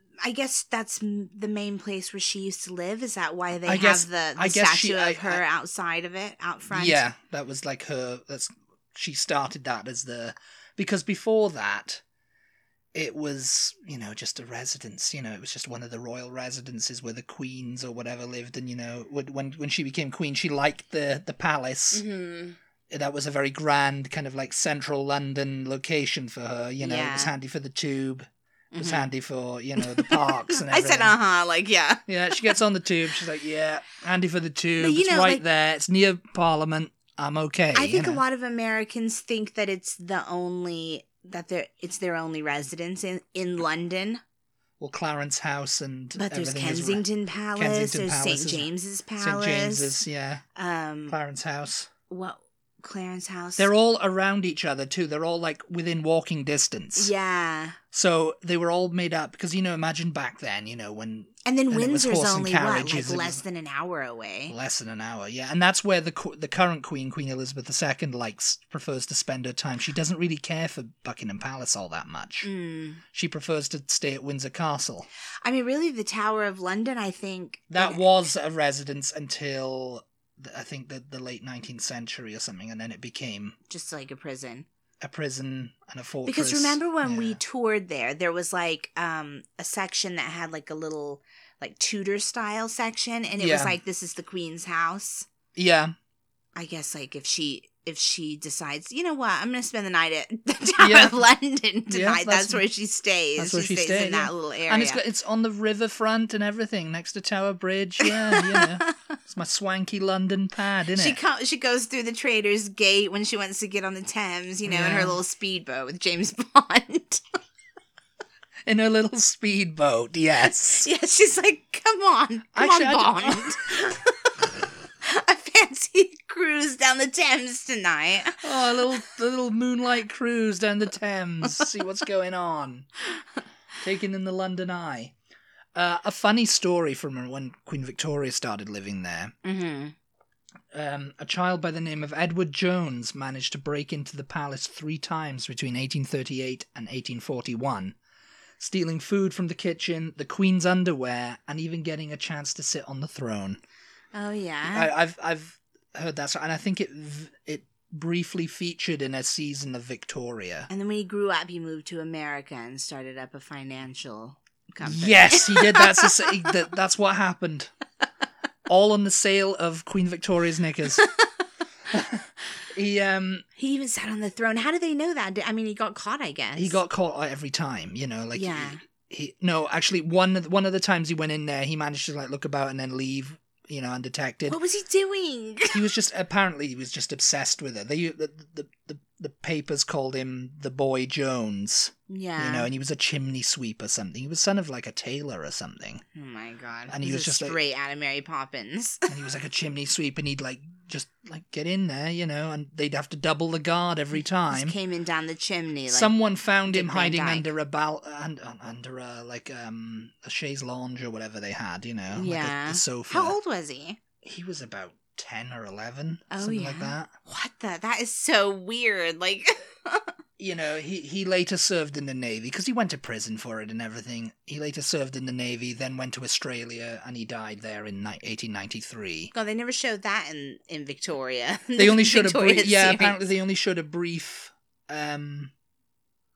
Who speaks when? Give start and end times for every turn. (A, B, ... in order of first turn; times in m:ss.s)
0:00.2-0:07.0 A
0:03.6-0:05.4 B
0:06.7-0:12.0 B
0:12.9-0:22.0 B
0:21.9-0:22.6 A
0:22.9-0:31.2 B
0:26.8-0:27.3 A
0:28.7-0:29.1 A
0:29.8-0:32.6 A
0:32.1-0:38.2 B
0:34.8-0:35.4 A
0:37.7-0:44.2 A
0:44.8-0:50.4 B
0:46.2-0:50.0 A
0:50.6-0:51.2 A
0:51.1-0:51.9 B
0:52.1-0:53.7 A
0:53.6-0:57.1 B
0:57.0-0:57.8 A
0:57.9-1:03.4 B
1:01.4-1:04.5 A
1:04.5-1:12.5 B
1:12.4-1:13.0 A
1:13.1-1:15.1 B
1:15.4-1:18.0 A
1:17.7-1:23.6 B
1:23.7-1:24.6 A
1:25.0-1:27.4 B
1:26.2-1:35.3 A
1:33.4-1:33.8 B
1:35.5-1:35.9 B
1:36.6-1:45.0 A
1:40.8-1:41.2 B
1:41.9-1:42.6 B
1:43.4-1:51.2 B
1:48.0-1:48.9 A
1:51.0-1:57.2 A
1:54.6-1:55.2 B
1:58.6-2:00.9 B
2:00.6-2:04.3 A
2:02.5-2:03.5 B
2:05.0-2:08.4 A
2:08.4-2:12.9 B
2:13.8-2:15.1 B
2:15.8-2:19.3 B
2:19.4-2:20.0 A
2:20.7-2:28.0 B
2:28.6-2:33.6 B
2:34.1-2:34.9 A
2:34.7-2:40.7 B
2:40.7-2:46.5 A
2:44.8-2:47.7 B
2:48.7-2:51.0 B
2:51.0-2:51.3 A
2:51.9-2:53.4 B
2:53.6-2:56.8 A
2:56.6-3:04.6 B
2:58.4-2:58.8 A
3:04.5-3:05.9 A
3:05.7-3:16.0 B
3:12.1-3:12.7 A
3:16.1-3:19.1 A
3:16.9-3:17.6 B
3:19.1-3:24.8 B
3:24.5-3:26.1 A
3:25.9-3:33.4 B
3:26.7-3:27.5 A
3:32.1-3:34.0 A
3:34.2-3:37.1 B
3:36.3-3:40.1 A
3:40.4-3:49.3 B
3:49.3-3:53.2 A
3:51.8-3:55.5 B